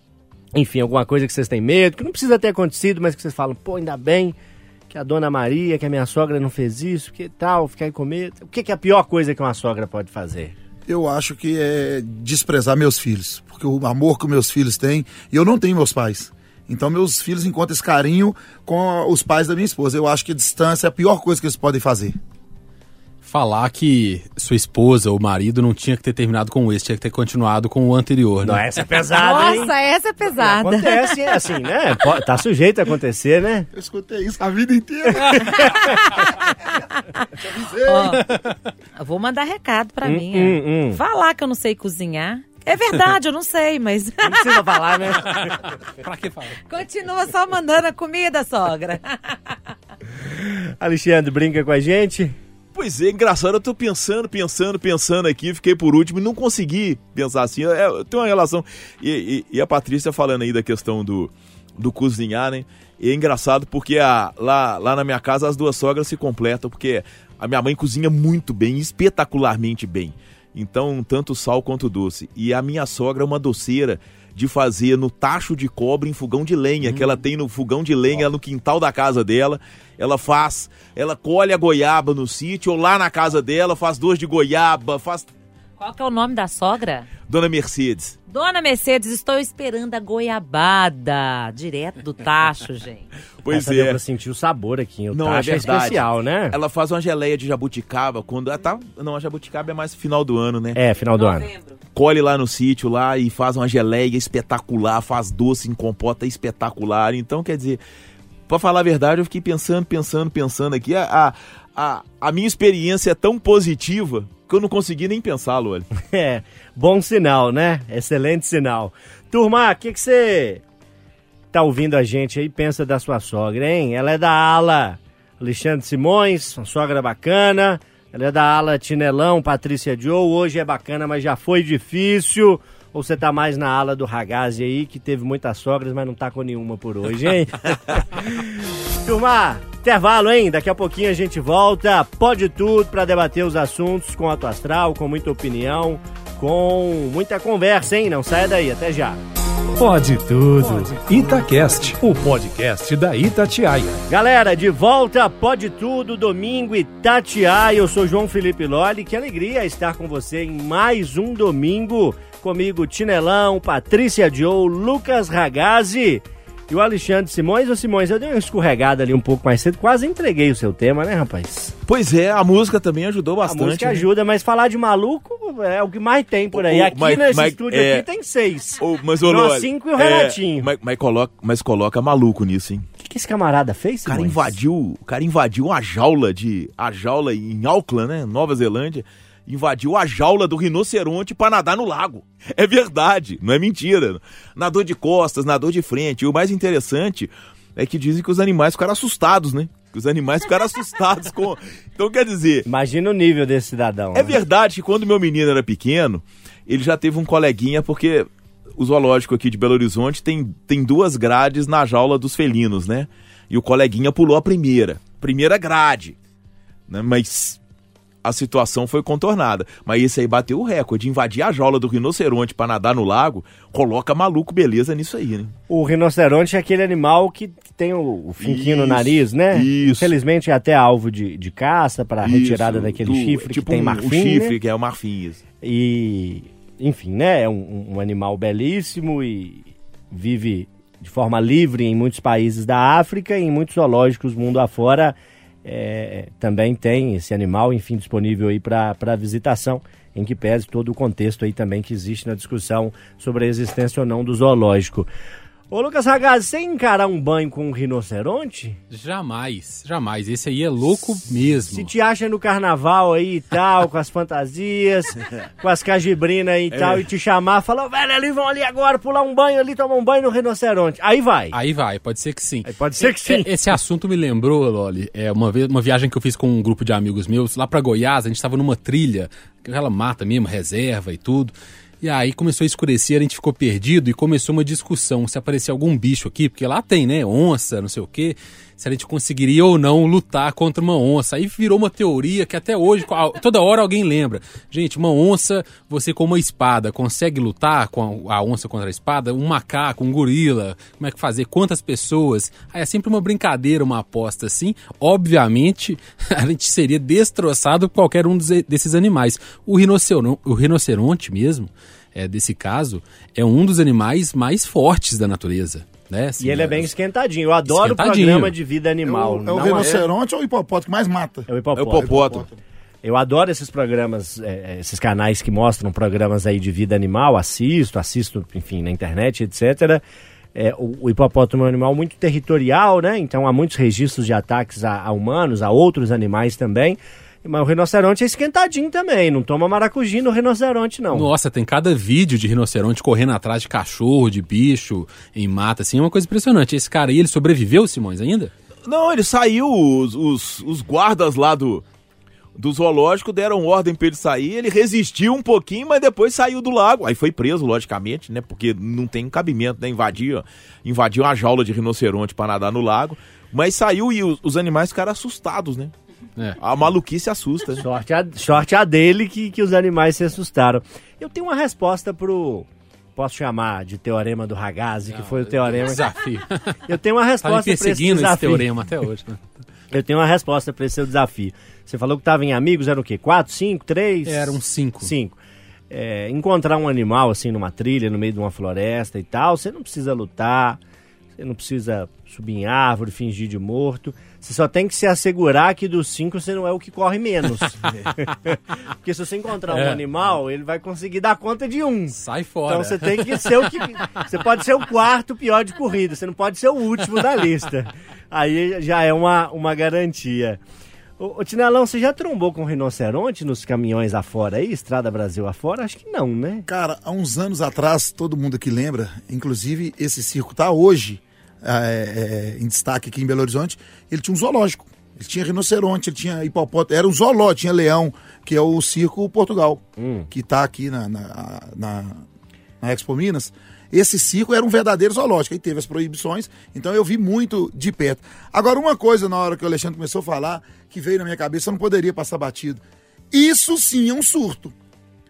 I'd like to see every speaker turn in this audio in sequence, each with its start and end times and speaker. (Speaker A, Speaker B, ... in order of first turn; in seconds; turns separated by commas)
Speaker A: 0.5-4.3, Speaker A: 4.9-10.6, Speaker B: 10.9-22.2, Speaker C: 23.2-29.2, Speaker A: 28.4-29.7, Speaker D: 29.2-31.2, Speaker A: 30.4-33.7, Speaker B: 33.7-35.9, Speaker A: 35.3-35.8, Speaker D: 37.1-38.2, Speaker B: 37.4-38.4, Speaker D: 39.0-45.0, Speaker A: 40.0-41.0, Speaker A: 44.2-45.6, Speaker C: 45.3-46.6, Speaker D: 46.7-49.6, Speaker A: 50.1-52.4, Speaker E: 52.7-85.3, Speaker D: 85.8-87.1, Speaker E: 87.3-88.2, Speaker D: 88.3-93.1, Speaker E: 93.5-94.0, Speaker A: 93.5-96.6, Speaker E: 95.1-100.8, Speaker A: 100.7-101.5, Speaker D: 101.2-101.7, Speaker E: 102.0-107.8, Speaker E: 108.5-115.9, Speaker A: 116.0-120.6, Speaker A: 121.5-149.2, Speaker F: 149.8-154.0, Speaker A: 154.1-171.7, Speaker E: 171.9-174.1, Speaker A: 173.4-180.7, Speaker E: 176.5-178.1, Speaker E: 178.8-182.8, Speaker A: 183.0-184.6, Speaker E: 184.1-202.7, Speaker A: 202.7-204.4, Speaker E: 204.1-216.2, Speaker E: 216.9-217.6, Speaker E: 218.2-225.5, Speaker A: 225.7-234.6, Speaker E: 228.4-230.1, Speaker E: 232.2-235.4, Speaker A: 235.6-255.1, Speaker A: 255.7-258.8, Speaker C: 258.9-261.9, Speaker A: 261.6-271.6, Speaker E: 266.7-267.1, Speaker C: 271.5-316.9, Speaker A: 272.7-273.5, Speaker A: 316.4-320.1, Speaker C: 317.7-318.6, Speaker B: 319.0-322.5, Speaker E: 319.6-320.1, Speaker A: 321.5-322.4, Speaker E: 321.8-322.5, Speaker A: 323.0-330.0, Speaker A: 330.6-341.3, Speaker C: 341.1-348.5, Speaker E: 348.9-351.8, Speaker E: 352.6-365.9, Speaker E: 366.6-367.8, Speaker A: 367.8-376.1, Speaker C: 375.1-376.8, Speaker A: 376.9-378.7, Speaker C: 377.4-379.4, Speaker A: 379.9-385.4, Speaker C: 384.2-385.1, Speaker A: 385.9-390.8, Speaker A: 391.4-410.6, Speaker C: 399.7-400.0, Speaker C: 402.1-403.6, Speaker A: 411.2-416.7, Speaker B: 416.7-432.2, Speaker A: 430.0-430.3, Speaker B: 432.8-444.8